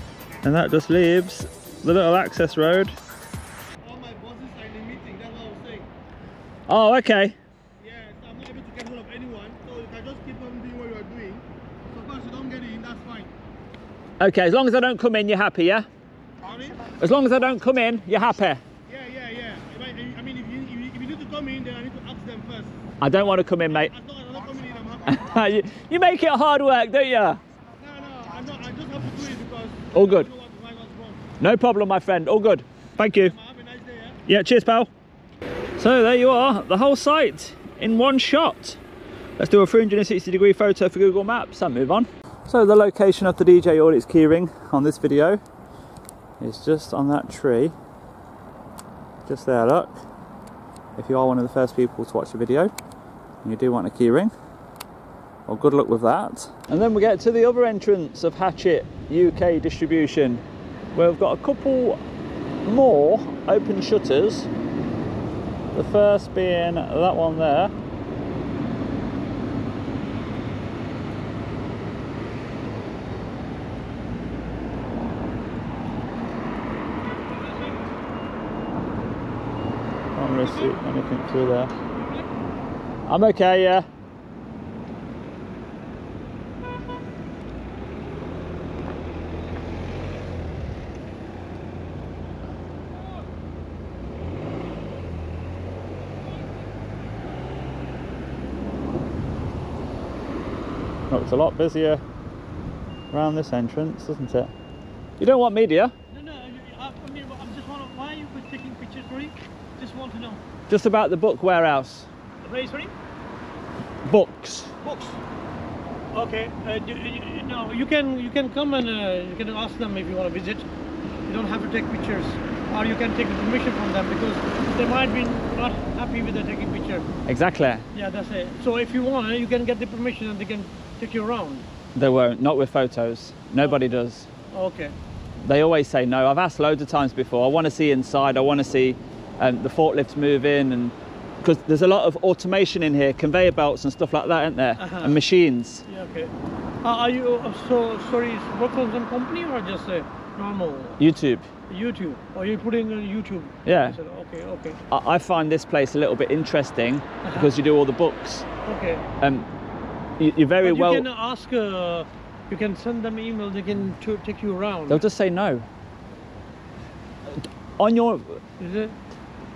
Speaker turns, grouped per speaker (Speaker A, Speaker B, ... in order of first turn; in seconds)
Speaker A: 0.4-3.0, 6.7-7.4, 14.2-15.9, 17.0-18.6, 23.0-23.9, 25.1-27.4, 29.9-30.3, 31.4-33.3, 34.3-34.9, 35.8-38.8, 39.4-45.4, 46.4-47.8, 49.2-50.0, 51.0-52.7, 53.4-54.3, 55.5-60.4, 61.0-62.0, 62.6-64.5, 65.7-67.7, 80.2-81.7, 83.1-83.9, 101.1-102.0, 103.1-104.5, 105.2-105.9, 110.7-112.1, 114.1-114.7, 127.3-127.8, 131.9-134.3, 135.4-145.8, 151.0-151.5, 153.7-154.0, 154.9-158.5, 159.2-159.5, 160.2-161.1, 164.9-165.7, 167.3-168.4
Speaker B: 3.8-5.9, 7.8-13.3, 16.4-16.9, 18.9-22.8, 23.6-25.2, 27.8-31.2, 33.0-34.2
Speaker C: 80.5-80.8, 81.9-82.2, 106.1-110.4, 112.4-112.9, 114.8-115.2, 116.1-120.7, 121.3-127.0, 128.0-131.7, 134.5-134.9, 144.8-145.2, 145.9-146.3, 146.8-151.0, 151.7-154.8, 158.7-159.0, 160.6-165.0, 168.6-168.9